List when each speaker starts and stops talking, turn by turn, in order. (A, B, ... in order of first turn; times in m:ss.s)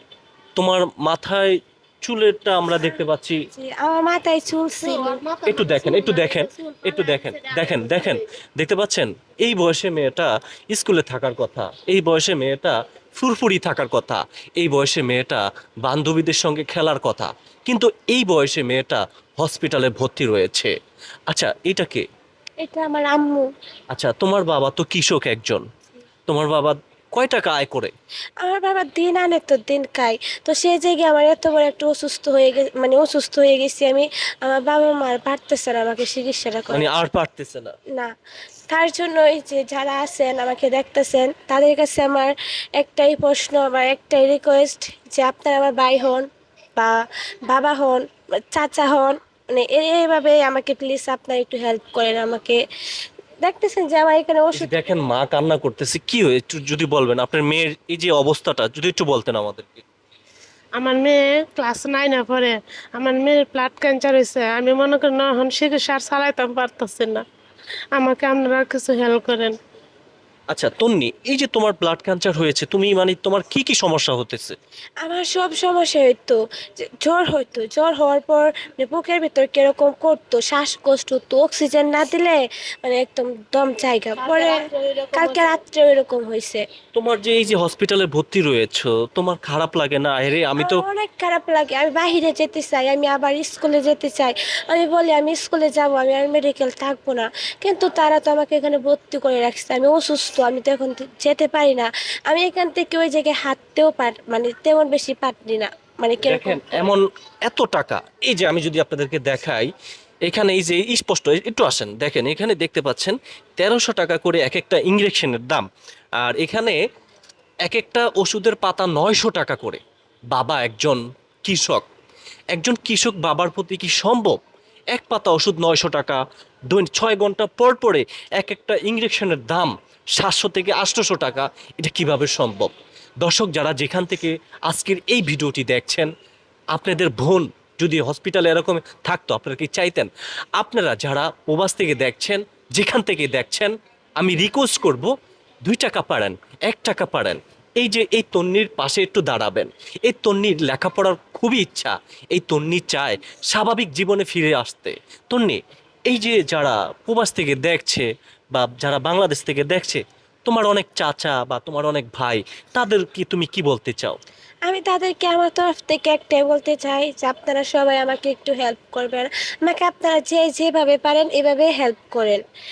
0:00.6-0:01.5 A
0:02.0-0:03.4 A
0:03.6-0:05.2 B
0:04.8-0:08.2 C
0:05.4-0:20.7 A
0:21.3-0:22.0 A
0:22.6-0:23.5 B
0:23.9-0:25.6 A
0:26.3-0:27.9 A
0:28.4-0:37.0 B
0:36.7-0:37.8 A
0:38.7-0:52.6 B
0:53.4-0:54.7 B
0:54.5-0:59.8 A
1:00.7-1:07.2 C
1:07.9-1:09.6 C
1:10.5-1:14.6 A
1:15.0-1:26.6 B
1:24.2-1:25.6 C
1:26.9-1:30.8 A
1:30.6-1:46.9 B
1:46.2-1:49.7 A
1:50.2-1:55.7 A
1:56.2-1:56.8 A
1:57.6-1:59.8 A
2:00.3-2:01.8 A
2:02.5-2:04.4 A
2:04.9-2:16.1 A
2:16.7-2:25.1 A
2:25.6-2:44.2 A
2:44.6-2:52.4 B